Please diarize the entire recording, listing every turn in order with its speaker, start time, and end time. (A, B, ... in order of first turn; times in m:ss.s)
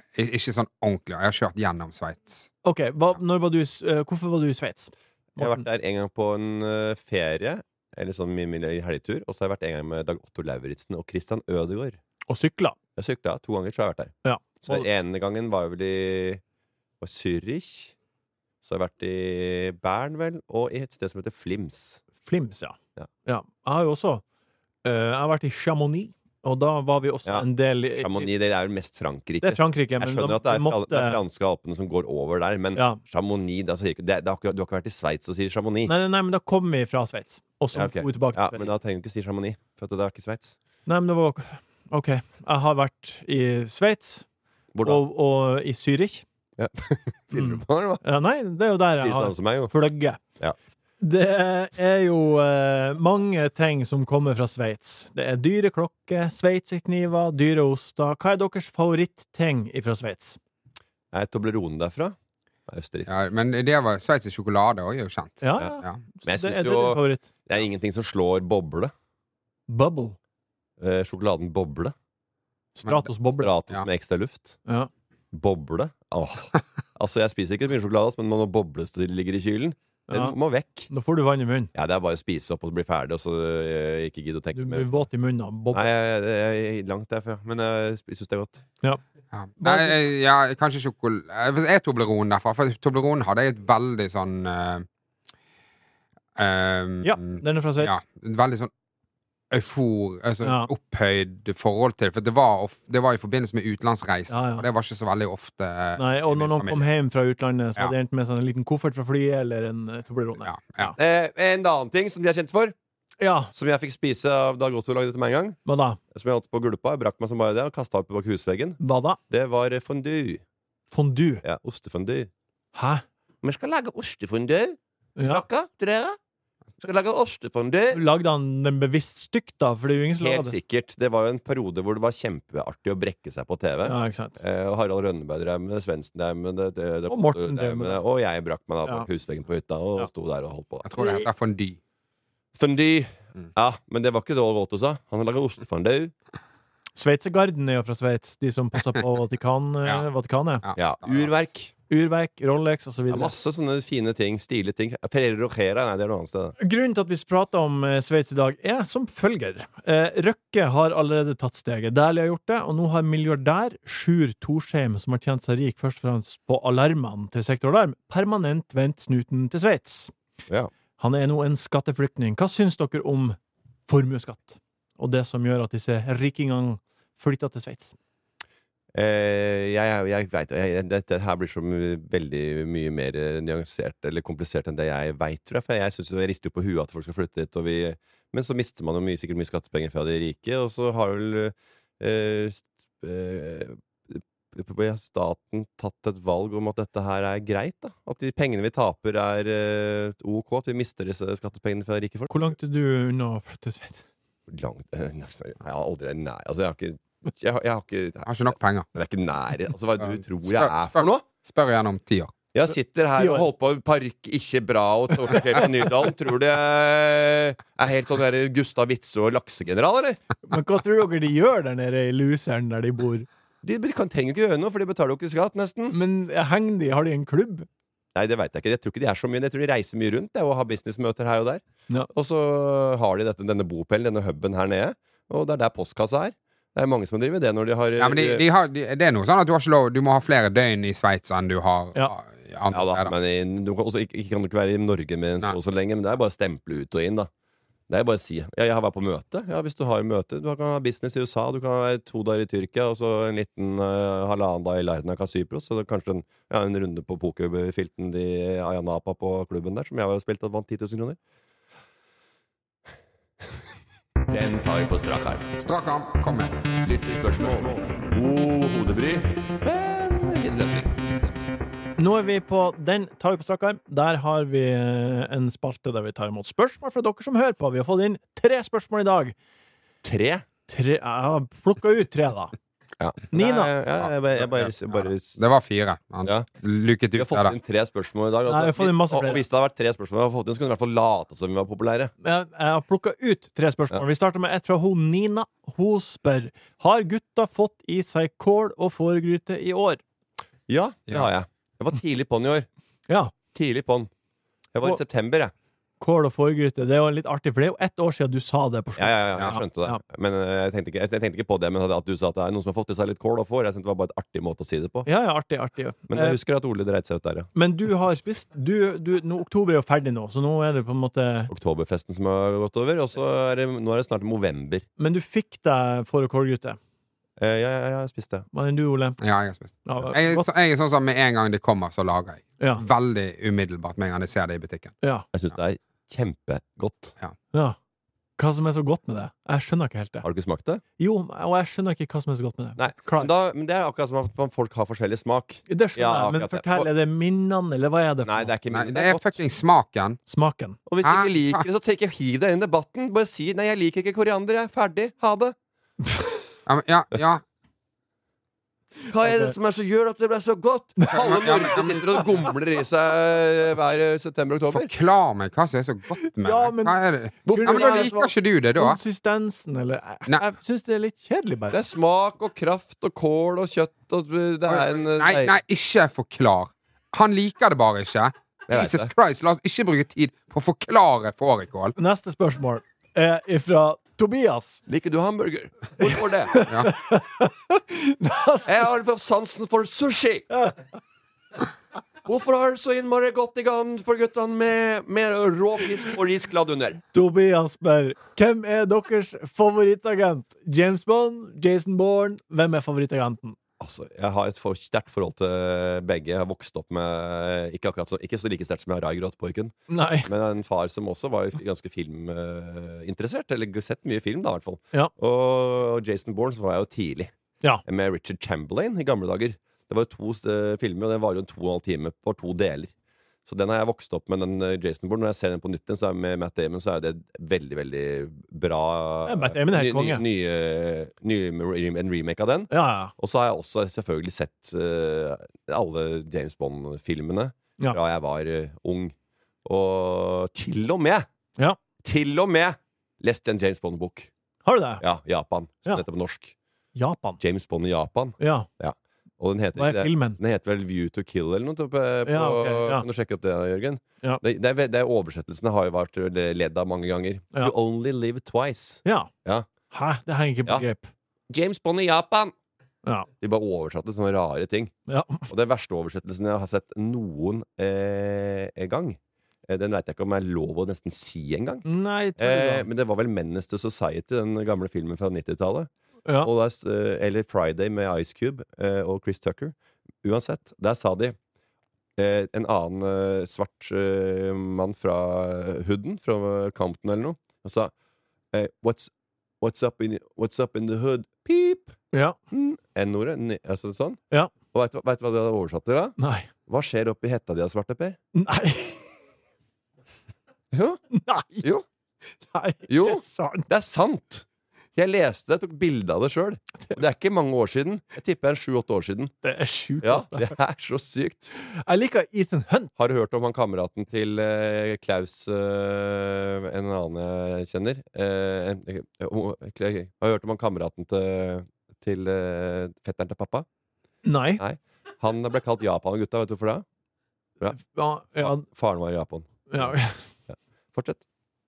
0:00.2-0:02.5 A
0:02.6-0:05.6 B
0:05.4-0:12.0 C
0:12.3-0:12.8 B
0:13.0-0:16.4 C
0:14.2-0:14.9 B
0:17.0-0:17.9 C
0:18.6-0:22.0 C
0:22.2-0:24.2 B
0:24.8-0:28.3 B
0:27.2-0:35.9 C
0:29.4-0:31.2 B
0:35.9-0:38.6 B
0:37.7-0:40.5 C
0:40.9-0:44.2 B
0:44.7-0:45.0 C
0:44.8-0:46.2 B
0:46.6-0:48.0 C
0:47.3-0:50.2 B
0:49.0-0:49.7 C
0:51.0-1:00.4 B
1:01.1-1:02.1 C
1:02.7-1:03.1 C
1:03.1-1:06.0 A
1:05.4-1:07.3 B
1:06.2-1:08.9 C
1:09.7-1:10.2 B
1:10.8-1:11.9 C
1:12.7-1:13.5 B
1:13.4-1:14.6 C
1:15.3-1:20.9 C
1:20.1-1:20.3 B
1:20.9-1:21.7 B
1:21.7-1:24.9 C
1:24.5-1:25.9 B
1:25.7-1:28.6 C
1:29.3-1:34.8 A
1:29.6-1:30.0 B
1:36.4-1:38.7 A
1:37.0-1:38.0 B
1:39.5-1:46.9 A
1:40.4-1:40.7 B
1:44.3-1:44.7 B
1:46.0-1:51.0 B
1:50.4-1:50.9 A
1:51.0-1:52.7 C
1:53.2-1:53.5 B
1:53.5-1:55.6 C
1:55.6-1:56.0 B
1:56.1-2:00.4 C
1:58.8-1:59.2 B
2:00.9-2:01.4 B
2:01.4-2:02.3 C
2:02.7-2:03.0 B
2:03.4-2:04.8 C
2:05.2-2:05.4 B
2:05.3-2:06.2 C
2:06.8-2:08.0 C
2:07.9-2:10.5 B
2:10.2-2:20.9 C
2:13.9-2:14.4 B
2:17.1-2:18.0 B
2:20.8-2:21.8 A
2:22.6-2:26.1 C
2:27.0-2:30.6 B
2:30.6-2:31.3 A
2:30.8-2:31.7 C
2:31.9-2:33.3 B
2:33.1-2:36.6 C
2:36.6-2:50.1 B
2:51.0-2:53.4 B
2:53.9-2:57.9 B
2:58.9-3:22.5 C
3:22.3-3:24.0 B
3:24.5-3:31.2 C
3:28.2-3:28.8 A
3:30.0-3:32.3 A
3:32.5-3:40.2 C
3:33.2-3:33.5 B
3:40.5-3:43.3 B
3:43.6-3:46.0 C
3:45.9-3:47.7 B
3:48.1-3:51.6 C
3:52.1-3:58.4 C
3:58.0-4:03.1 A
4:02.7-4:07.3 C
4:07.9-4:21.2 C
4:24.3-4:25.5 C
4:25.6-4:26.6 A
4:26.8-4:31.4 C
4:32.0-4:39.3 B
4:40.0-4:40.4 C
4:40.7-4:42.5 B
4:43.0-4:45.4 C
4:43.3-4:43.7 B
4:44.4-4:47.6 A
4:47.1-4:52.1 C
4:48.5-4:49.4 B
4:52.2-5:00.0 B
5:00.7-5:02.7 C
5:03.1-5:03.3 B
5:03.5-5:04.1 C
5:04.7-5:05.5 C
5:06.0-5:10.0 B
5:09.0-5:15.1 C
5:15.0-5:16.4 B
5:16.1-5:17.5 C
5:17.5-5:21.5 B
5:21.5-5:24.8 C
5:25.0-5:26.8 B
5:27.4-5:28.5 C
5:28.5-5:29.2 B
5:29.2-5:34.9 A
5:29.8-5:30.5 B
5:35.3-5:37.1 C
5:38.4-5:40.2 B
5:40.2-5:40.8 C
5:41.0-5:43.3 B
5:42.8-5:46.9 C
5:45.7-5:48.5 B
5:48.2-5:49.4 C
5:48.7-5:50.2 A
5:50.3-5:50.8 B
5:50.9-5:55.5 C
5:51.0-5:51.6 A
5:56.7-5:57.4 A
5:59.0-5:59.5 B
5:59.1-6:04.9 C
6:01.1-6:02.2 A
6:04.7-6:09.0 A
6:06.2-6:11.8 B
6:07.6-6:08.0 C
6:11.7-6:15.5 C
6:14.7-6:21.9 A
6:18.7-6:19.1 C
6:22.0-6:24.8 B
6:24.9-6:26.6 C
6:26.0-6:28.9 B
6:28.6-6:30.5 C
6:30.5-6:30.8 B
6:32.2-6:37.0 C
6:37.1-6:43.6 B
6:43.8-6:57.3 C
6:49.9-6:50.3 B
6:57.8-7:02.9 C
7:03.4-7:19.1 C
7:09.3-7:10.2 B
7:12.7-7:13.1 B
7:19.6-7:21.3 C
7:22.0-7:24.3 C
7:24.6-7:25.0 B
7:25.0-7:26.5 C
7:27.0-7:27.4 B
7:27.4-7:39.7 C
7:28.4-7:28.7 B
7:29.8-7:30.4 B
7:32.2-7:33.0 B
7:39.0-7:39.3 B
7:39.9-7:41.1 B
7:41.5-7:42.5 C
7:43.4-7:44.9 C
7:45.1-7:45.4 B
7:45.5-7:51.8 C
7:51.8-7:52.8 B
7:52.4-7:55.9 C
7:56.4-8:01.4 C
8:02.2-8:07.9 C
8:08.5-8:12.0 C
8:12.5-8:14.2 C
8:14.7-8:18.2 C
8:16.2-8:16.5 B
8:18.3-8:19.0 B
8:20.7-8:21.0 C
8:21.1-8:21.7 B
8:22.4-8:23.7 B
8:22.9-8:29.3 C
8:29.4-8:30.5 B
8:30.0-8:31.5 C
8:31.7-8:33.0 B
8:33.0-8:43.6 C
8:44.2-8:44.6 B
8:44.6-8:46.8 C
8:47.8-8:48.6 B
8:48.4-8:50.0 C
8:49.7-8:50.2 B
8:50.5-8:51.2 C